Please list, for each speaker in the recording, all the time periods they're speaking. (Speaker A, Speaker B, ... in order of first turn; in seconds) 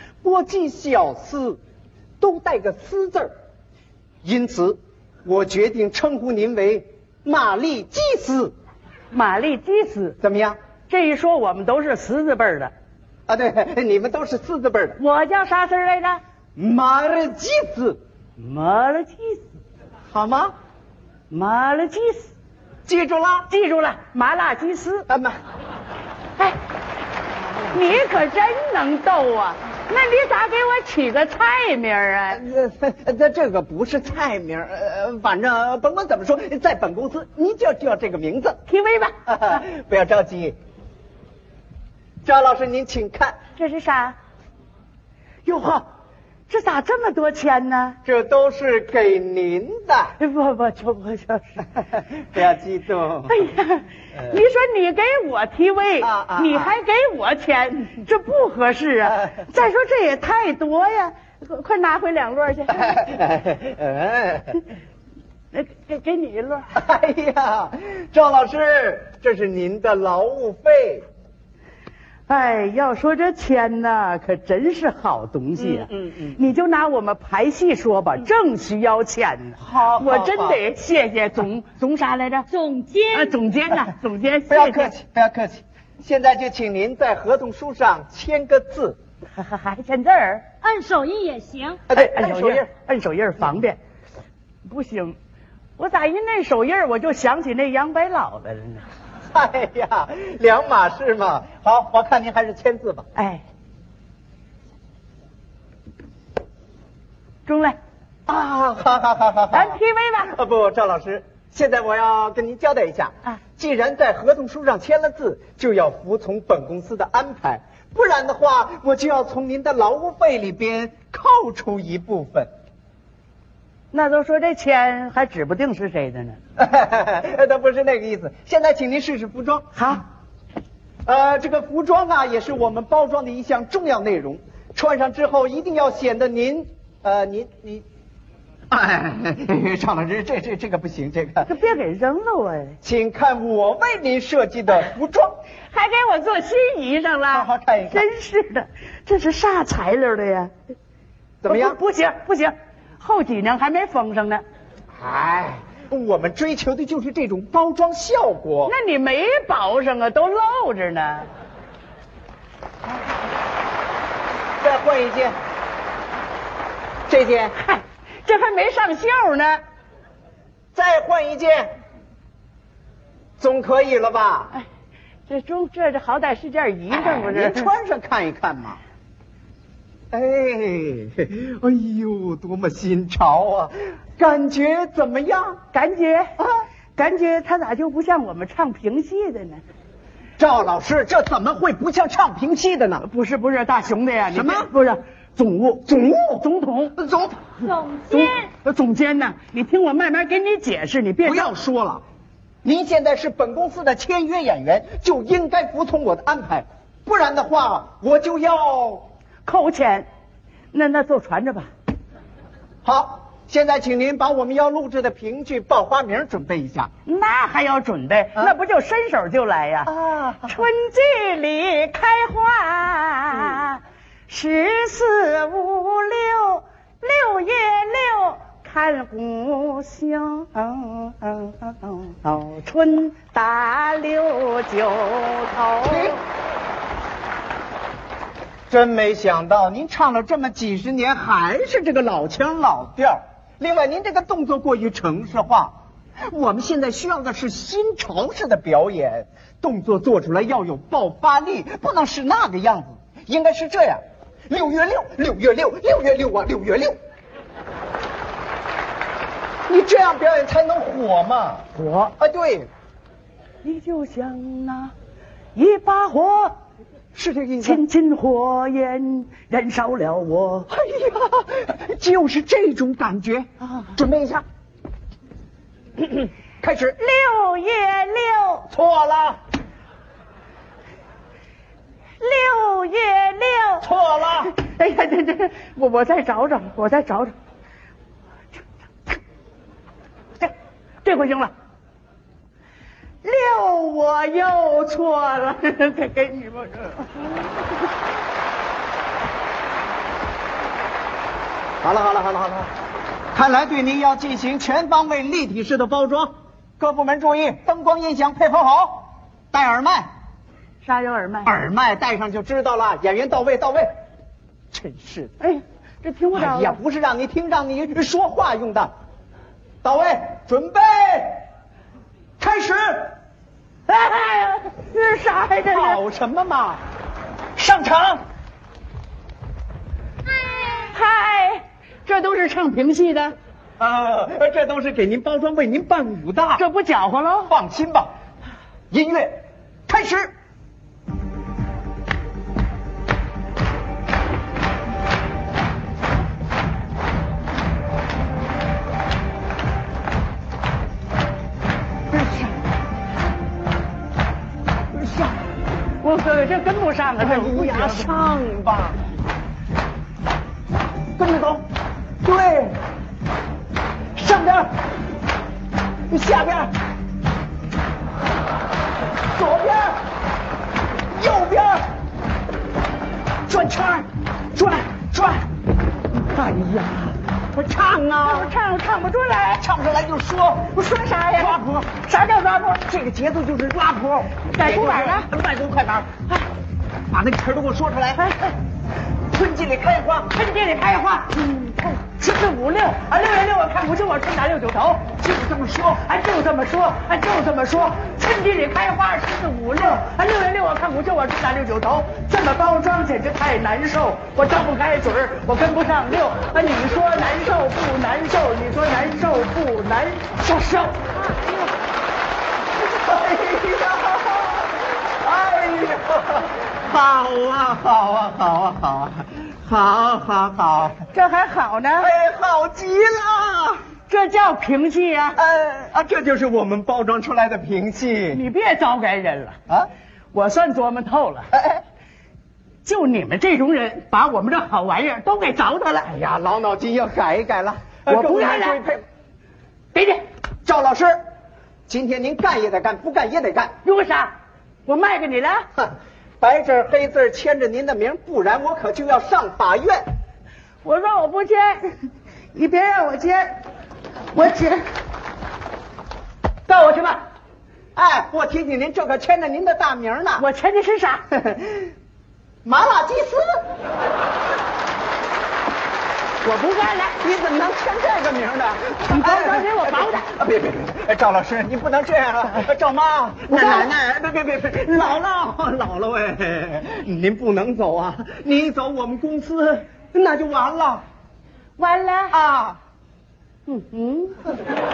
Speaker A: 0.2-1.6, 2.2-3.3, 4.2-8.5, 10.2-10.6, 13.3-15.0, 16.6-18.0, 20.1-20.5, 22.9-23.5, 25.1-25.4, 27.5-28.1, 32.3-38.6, 39.2-40.5, 42.2-43.4, 48.0-50.1, 52.2-53.4, 56.0-56.7, 59.1-59.4, 62.7-64.6, 66.7-71.0, 75.6-76.4, 79.6-80.6, 84.5-89.0, 91.9-92.7, 99.3-103.0, 108.3-122.5, 126.6-129.7, 131.1-137.8, 138.7-141.5, 142.8-145.3, 147.3-148.1, 151.4-151.8, 154.9-158.7, 164.6-165.4, 167.1-167.5, 170.7-171.7, 173.4-174.5, 176.9-178.8, 180.1-185.6, 186.4-186.6, 190.4-193.1, 194.3-194.7, 195.9-196.4, 197.0-197.7, 201.2-202.0, 202.6-209.1, 212.8-216.9, 219.8-220.6, 235.8-236.2, 238.7-245.7, 246.3-257.0, 259.7-261.6, 262.2-262.7, 267.1-267.8, 270.7-274.4, 276.6-276.9, 278.7-279.4, 283.8-284.5, 301.8-302.7, 303.3-310.1, 311.4-313.9, 314.7-315.3, 316.3-318.9, 319.8-321.4, 322.4-323.1, 325.7-326.8, 327.6-328.2, 333.8-336.6, 337.5-338.1, 338.9-339.4, 339.9-340.3, 352.1-352.6, 354.9-355.4, 357.2-359.0, 361.1-361.6, 362.2-362.8, 364.1-364.7, 366.1-366.7, 369.3-370.0, 371.1-371.8, 373.5-375.5, 377.5-378.5, 379.5-380.7, 381.4-386.1, 387.1-388.2, 389.3-390.3, 395.2-396.1, 412.8-421.0, 422.0-423.8, 425.4-428.4, 431.5-431.8, 436.1-439.0, 440.6-441.2, 441.9-443.7, 445.7-450.1, 457.9-460.4, 461.3-461.9, 462.6-463.6, 467.2-481.0, 482.3-482.8
Speaker B: 9.1-10.2, 10.9-12.7, 15.0-16.2, 18.4-19.5, 21.3-22.3, 23.5-25.1, 27.7-32.4, 38.7-39.1, 43.5-44.2, 45.4-45.8, 46.5-48.0, 50.2-51.7, 53.3-63.0, 65.5-66.7, 72.3-82.5, 83.1-84.9, 89.3-90.5, 91.9-93.8, 94.6-95.2, 95.8-98.8, 103.2-103.4, 107.5-107.8, 109.5-110.3, 123.9-126.4, 129.7-130.0, 141.4-142.8, 145.7-150.5, 151.4-154.4, 158.7-161.3, 167.6-169.6, 175.3-177.7, 185.7-186.3, 186.9-189.6, 193.1-196.9, 198.1-201.5, 209.4-210.1, 210.7-211.7, 217.1-219.9, 220.5-236.2, 261.7-262.1, 263.6-264.9, 265.5-266.5, 267.6-270.7, 276.9-278.7, 282.2-283.9, 284.4-287.3, 290.4-291.5, 293.2-297.5, 310.8-311.5, 315.4-316.8, 323.9-326.0, 330.6-333.4, 336.6-337.5, 356.0-358.1, 376.3-377.2, 378.2-379.6, 380.7-381.6, 384.5-385.3, 388.1-388.6, 390.3-395.1, 396.0-411.6, 421.1-422.1, 424.1-425.4, 428.3-429.6, 430.3-431.5, 432.8-436.1, 438.1-438.8, 439.9-440.2, 443.8-444.3, 444.8-445.6, 450.8-453.6, 454.3-454.9, 456.7-457.2, 460.4-461.2, 466.4-467.2, 469.1-470.2, 473.5-473.9, 481.8-482.4, 483.6-484.4
Speaker C: 82.5-83.3, 90.6-91.8, 197.6-198.5